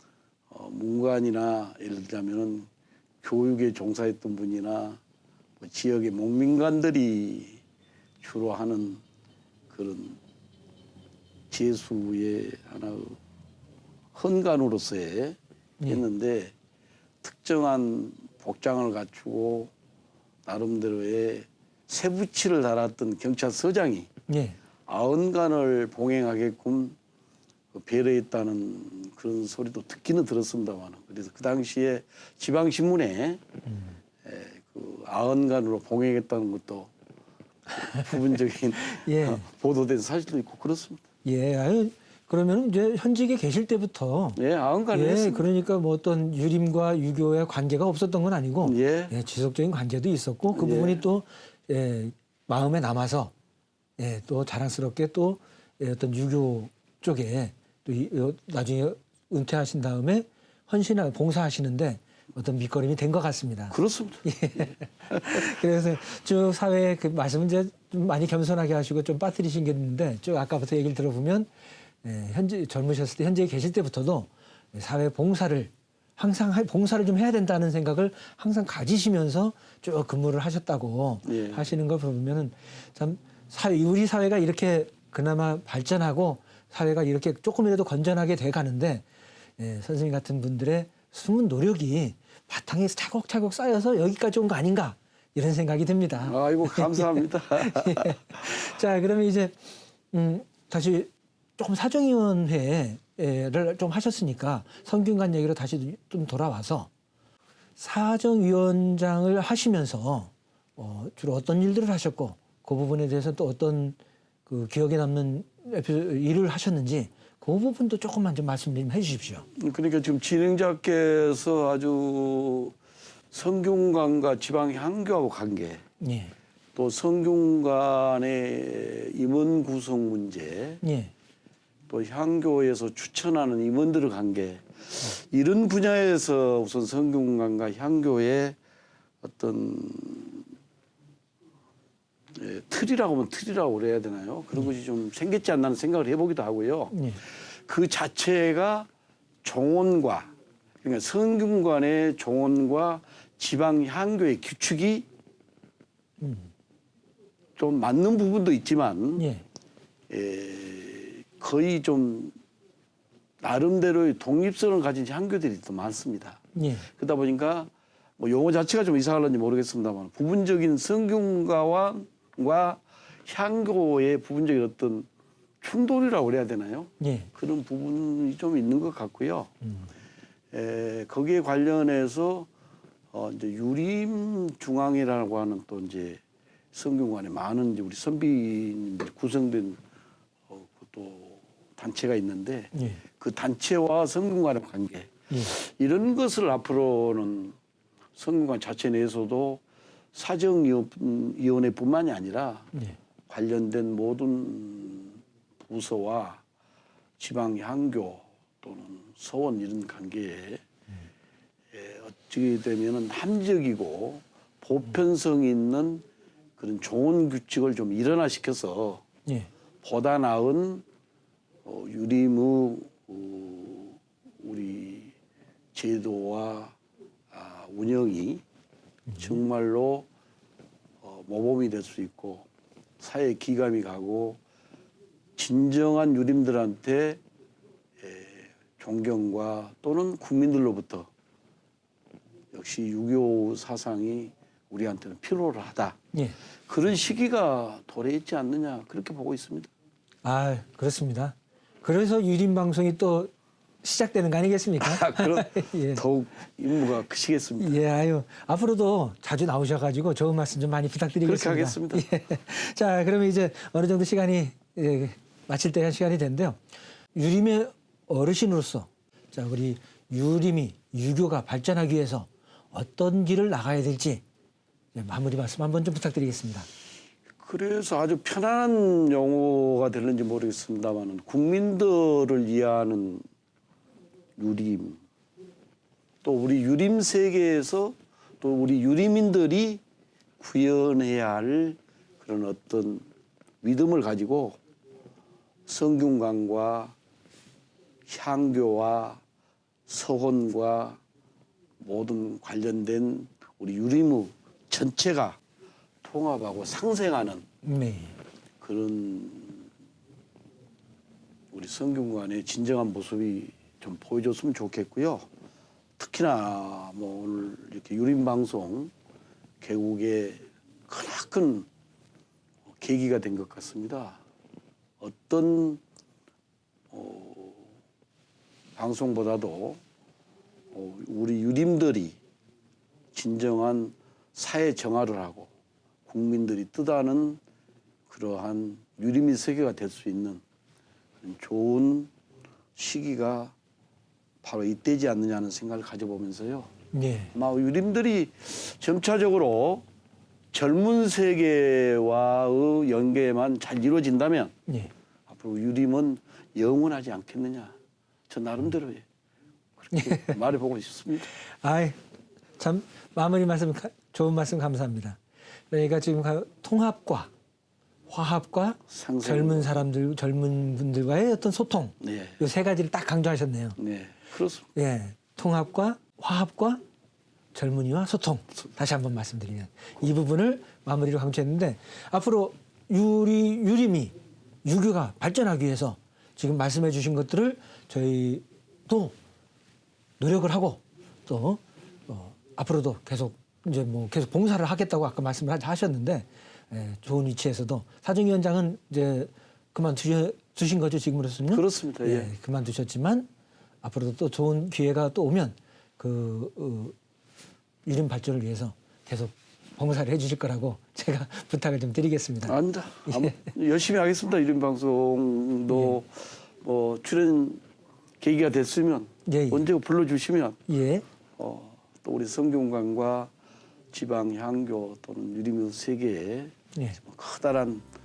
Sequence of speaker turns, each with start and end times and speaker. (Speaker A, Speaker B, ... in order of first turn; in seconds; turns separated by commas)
Speaker A: 0.5-2.7, Speaker A: 3.2-5.0, Speaker A: 5.6-7.6, Speaker A: 8.2-9.0, Speaker A: 9.7-10.2, Speaker A: 11.5-13.2, Speaker A: 14.1-16.5, Speaker A: 17.2-19.7, Speaker A: 20.4-24.1, Speaker B: 24.3-24.6, Speaker A: 24.9-26.9, Speaker A: 27.7-33.4, Speaker B: 33.7-34.0, Speaker A: 34.2-36.9, Speaker A: 37.7-41.0, Speaker B: 38.9-39.5, Speaker B: 41.2-44.4, Speaker A: 44.4-45.5, Speaker B: 44.9-53.3, Speaker A: 48.6-49.1, Speaker A: 50.5-51.0, Speaker B: 54.0-71.5, Speaker A: 63.7-64.2, Speaker B: 72.0-89.0, Speaker A: 81.2-81.7, Speaker B: 89.6-106.9, Speaker A: 96.2-98.4, Speaker B: 107.8-119.5, Speaker A: 119.5-122.7, Speaker A: 123.3-125.8, Speaker B: 126.0-126.3, Speaker A: 126.7-130.8, Speaker B: 130.8-131.1, Speaker A: 131.9-138.6, Speaker A: 139.2-140.5, Speaker A: 142.3-148.9, Speaker B: 146.9-147.2, Speaker A: 149.4-155.1, Speaker B: 156.2-156.5, Speaker A: 157.6-159.2, Speaker B: 159.2-159.4, Speaker A: 160.1-162.3, Speaker A: 163.4-175.1, Speaker B: 166.5-166.9, Speaker A: 175.6-179.5, Speaker B: 177.0-177.3, Speaker A: 180.5-182.5, Speaker A: 183.1-186.2, Speaker A: 186.7-189.8, Speaker A: 190.5-197.5, Speaker B: 192.7-193.0, Speaker A: 198.2-199.6, Speaker A: 200.1-202.7, Speaker A: 203.3-206.4, Speaker A: 207.2-210.6, Speaker A: 211.7-216.0, Speaker A: 216.6-219.0, Speaker A: 219.8-220.8, Speaker A: 221.6-225.1, Speaker A: 225.7-226.7, Speaker A: 227.3-228.4, Speaker B: 229.1-229.4, Speaker A: 229.2-230.1, Speaker A: 231.0-232.5, Speaker A: 233.0-234.4, Speaker A: 235.3-237.2, Speaker A: 238.0-241.1, Speaker A: 242.5-246.0, Speaker A: 246.7-249.7, Speaker B: 250.2-253.3, Speaker B: 253.8-256.0, Speaker A: 254.8-257.8, Speaker B: 257.6-266.6, Speaker A: 261.2-262.1, Speaker B: 267.1-274.2, Speaker B: 274.9-276.7, Speaker A: 277.4-283.2, Speaker A: 284.4-285.0, Speaker A: 286.2-289.8, Speaker A: 290.4-293.0, Speaker A: 293.6-294.6, Speaker A: 295.7-296.9, Speaker A: 298.1-299.2, Speaker A: 299.9-301.0, Speaker A: 301.8-305.4, Speaker A: 306.0-307.4, Speaker B: 307.6-308.1, Speaker A: 308.6-309.7, Speaker A: 311.5-315.3, Speaker A: 316.0-318.9, Speaker A: 319.6-321.7, Speaker A: 322.7-324.2, Speaker A: 325.0-325.8, Speaker A: 326.9-327.7, Speaker A: 328.8-329.8, Speaker A: 330.7-332.2, Speaker A: 333.1-335.5, Speaker A: 336.1-337.4, Speaker A: 338.1-340.4, Speaker A: 341.2-342.1, Speaker A: 342.8-343.5, Speaker A: 344.4-346.7, Speaker B: 346.9-347.3, Speaker A: 347.3-349.8, Speaker A: 350.5-354.5, Speaker A: 355.3-357.8, Speaker A: 358.3-359.0, Speaker A: 359.8-361.3, Speaker B: 359.9-360.3, Speaker B: 361.4-362.0, Speaker B: 362.6-365.2, Speaker B: 365.7-367.3, Speaker B: 368.1-373.8, Speaker A: 368.9-369.9, Speaker A: 372.0-372.4, Speaker A: 373.8-374.6, Speaker B: 374.7-376.8, Speaker B: 377.5-389.1, Speaker B: 390.2-403.3, Speaker A: 401.5-402.3, Speaker B: 403.8-406.9, Speaker B: 407.9-413.5, Speaker A: 412.4-417.6, Speaker B: 415.7-415.9, Speaker A: 418.2-420.6, Speaker B: 419.2-419.6, Speaker B: 420.7-421.0, Speaker A: 421.4-423.3, Speaker A: 423.9-427.8